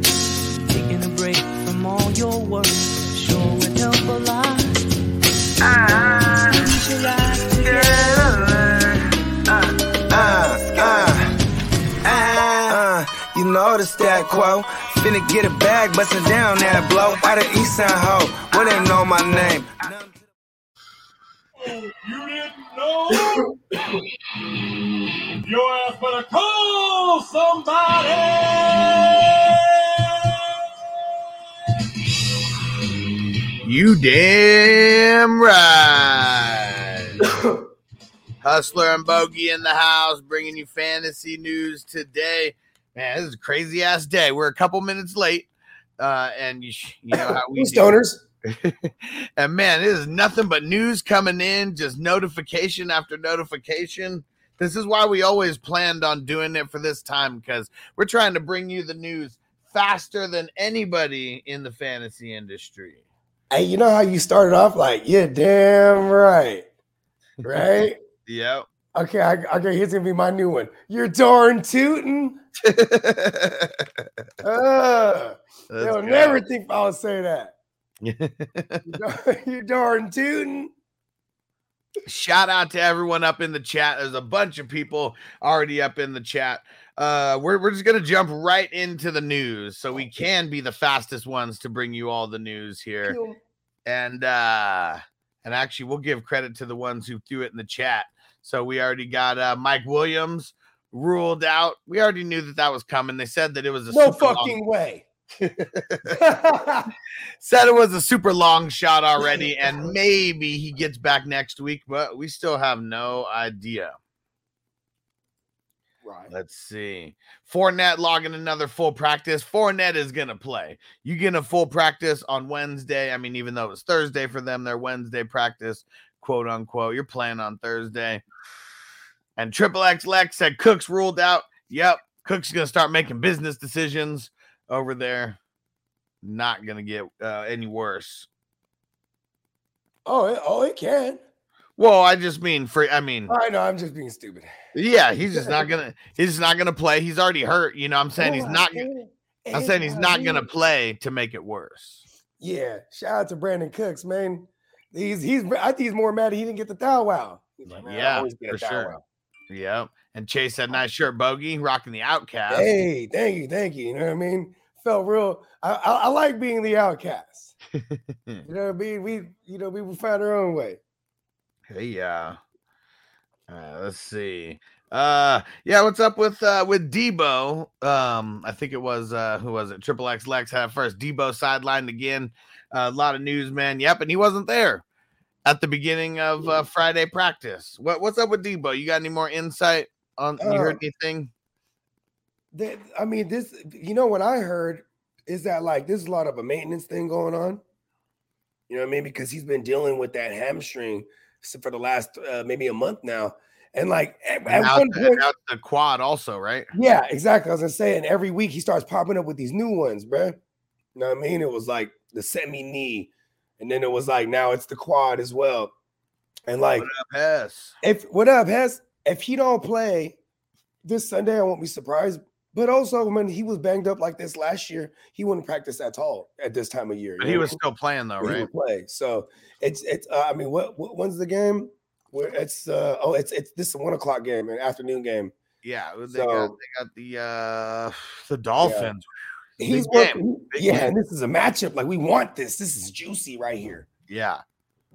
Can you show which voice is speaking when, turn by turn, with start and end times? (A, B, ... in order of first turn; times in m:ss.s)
0:00.7-0:04.9 A
0:05.6-0:09.0 B
0:06.6-0:08.5 A
0:10.1-0:11.3 B
0:10.9-0:11.2 A
0:12.0-0:20.2 B
0:21.6-0:24.0 C
0:25.4-0:30.5 C
0:31.7-0:32.0 C
0:33.6-0:37.2 D
0:37.2-0:37.5 E
0:38.4-1:03.0 D
0:47.1-0:48.2 E
1:03.5-1:06.7 E
1:07.4-1:08.0 E
1:08.2-1:08.6 D
1:08.9-1:12.4 E
1:12.6-1:13.8 D
1:14.4-1:17.5 E
1:15.7-1:16.4 D
1:18.0-1:18.9 D
1:18.8-1:20.7 E
1:22.0-1:33.2 D
1:33.0-1:33.4 E
1:33.8-1:44.6 D
1:43.9-1:45.0 E
1:45.4-1:46.2 D
1:46.1-1:46.9 E
1:47.4-1:53.9 D
1:49.2-1:49.9 E
1:56.0-1:56.3 E
1:56.3-2:08.2 D
2:09.4-2:15.4 D
2:16.2-2:18.3 D
2:20.0-2:21.2 E
2:21.8-2:23.3 D
2:23.3-2:24.5 E
2:24.7-2:28.9 D
2:25.3-2:25.7 E
2:28.2-2:30.4 E
2:29.5-2:32.0 D
2:32.4-2:39.0 E
2:37.8-2:38.9 D
2:39.5-2:42.7 D
2:42.5-2:47.5 E
2:48.4-2:50.8 E
2:51.7-2:52.4 D
2:53.5-3:04.8 D
3:05.4-3:11.3 D
3:10.4-3:10.8 E
3:12.5-3:17.6 E
3:18.7-3:25.2 E
3:24.5-3:26.7 D
3:26.7-3:30.4 E
3:30.9-3:35.7 E
3:36.5-3:36.9 E
3:36.8-3:37.7 D
3:37.8-3:40.2 E
3:40.8-3:47.6 E
3:47.2-3:48.5 D
3:48.2-3:55.3 E
3:55.6-3:59.0 D
3:56.1-3:56.5 E
3:58.6-3:58.9 E
3:59.6-4:03.9 E
3:59.7-4:00.9 D
4:04.1-4:04.4 D